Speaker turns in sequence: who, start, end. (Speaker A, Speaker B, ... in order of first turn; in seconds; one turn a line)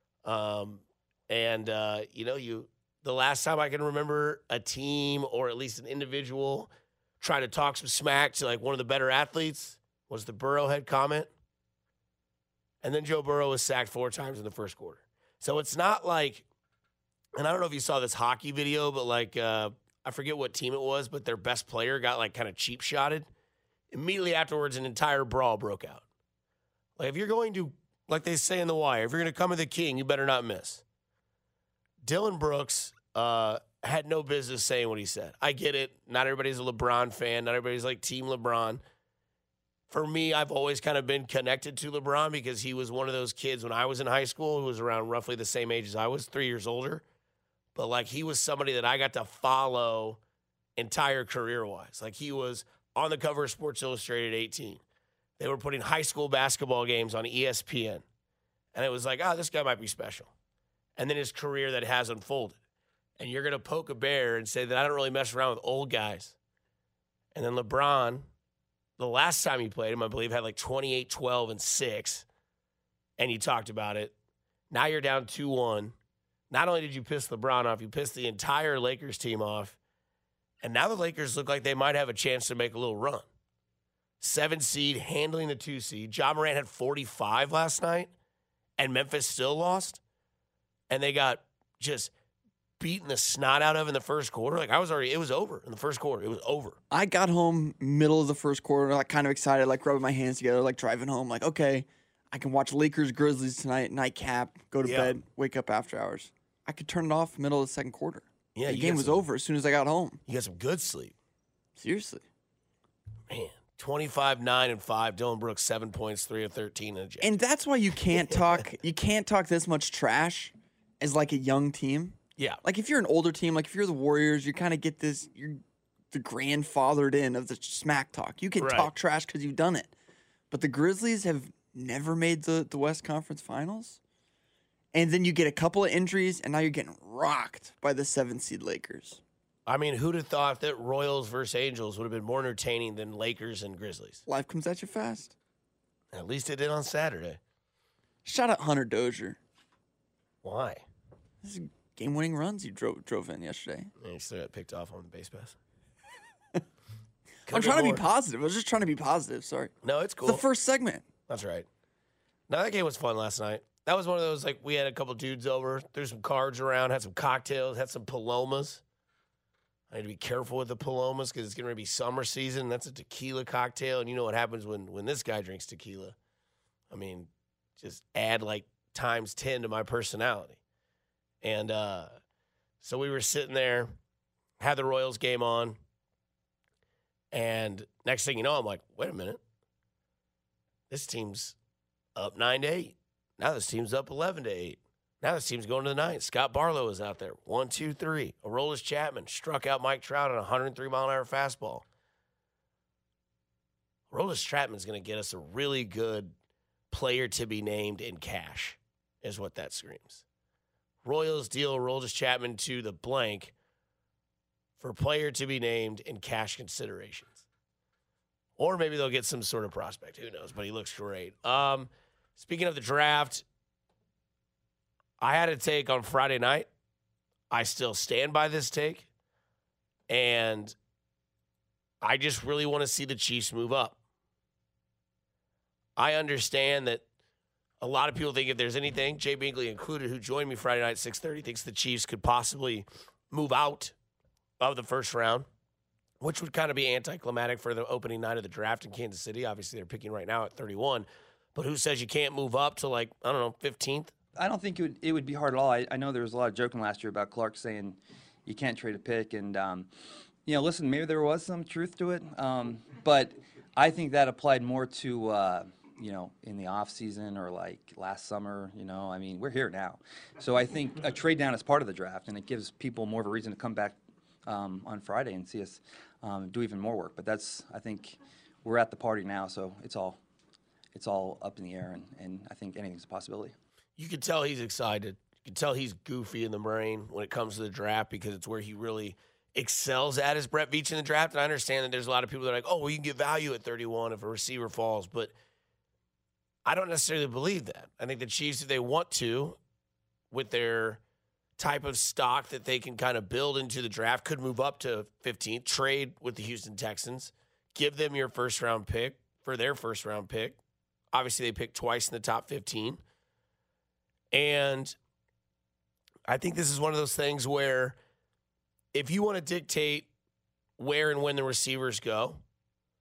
Speaker A: 0.2-11.3
Speaker A: 12.8-16.4
Speaker A: 17.3-23.3
Speaker A: 23.9-26.0
Speaker A: 27.0-30.8
Speaker A: 32.0-38.8
Speaker A: 39.9-47.0
Speaker A: 47.7-50.2
Speaker A: 50.8-54.8
Speaker A: 55.4-58.0
Speaker A: 58.7-60.3
Speaker A: 61.0-62.6
Speaker A: 63.2-66.3
Speaker A: 67.3-68.2
Speaker A: 69.0-72.2
Speaker A: 73.2-74.1
Speaker A: 74.7-75.9
Speaker A: 76.5-79.8
Speaker A: 80.6-83.2
Speaker A: 84.2-88.1
Speaker A: 88.8-90.0
Speaker A: 90.9-92.1
Speaker A: 92.8-96.8
Speaker B: 96.9-110.2
Speaker A: 104.8-105.2
Speaker A: 108.5-109.2
Speaker A: 110.3-111.1
Speaker B: 111.8-112.2
Speaker A: 113.3-117.3
Speaker B: 117.2-129.9
Speaker A: 128.6-128.9
Speaker B: 130.5-134.0
Speaker B: 134.9-139.2
Speaker A: 139.7-144.2
Speaker B: 144.3-145.3
Speaker A: 146.1-147.4
Speaker B: 148.2-149.4
Speaker A: 150.4-150.8
Speaker B: 151.4-153.9
Speaker A: 154.0-155.6
Speaker A: 157.5-158.0
Speaker B: 157.5-159.7
Speaker A: 159.8-160.4
Speaker B: 160.2-161.1
Speaker A: 161.3-161.7
Speaker A: 162.5-168.8
Speaker A: 169.9-176.1
Speaker A: 176.9-180.6
Speaker A: 181.4-182.2
Speaker A: 182.8-184.0
Speaker A: 184.6-185.8
Speaker A: 187.3-189.4
Speaker A: 190.9-191.5
Speaker A: 192.2-201.8
Speaker A: 204.1-206.3
Speaker A: 206.9-210.2
Speaker A: 211.0-213.5
Speaker A: 214.8-217.4
Speaker A: 218.6-223.4
Speaker A: 225.2-226.7
Speaker A: 227.5-229.1
Speaker A: 230.1-230.7
Speaker A: 232.0-234.0
Speaker A: 236.0-237.0
Speaker A: 237.8-243.9
Speaker A: 244.6-245.5
Speaker A: 246.2-254.1
Speaker C: 254.3-259.9
Speaker C: 260.4-280.2
Speaker C: 280.9-283.6
Speaker A: 284.0-295.3
Speaker A: 296.6-299.6
Speaker A: 300.3-301.0
Speaker A: 301.6-310.6
Speaker A: 311.1-313.0
Speaker A: 314.3-314.9
Speaker A: 316.3-317.9
Speaker A: 318.9-320.1
Speaker A: 320.8-322.4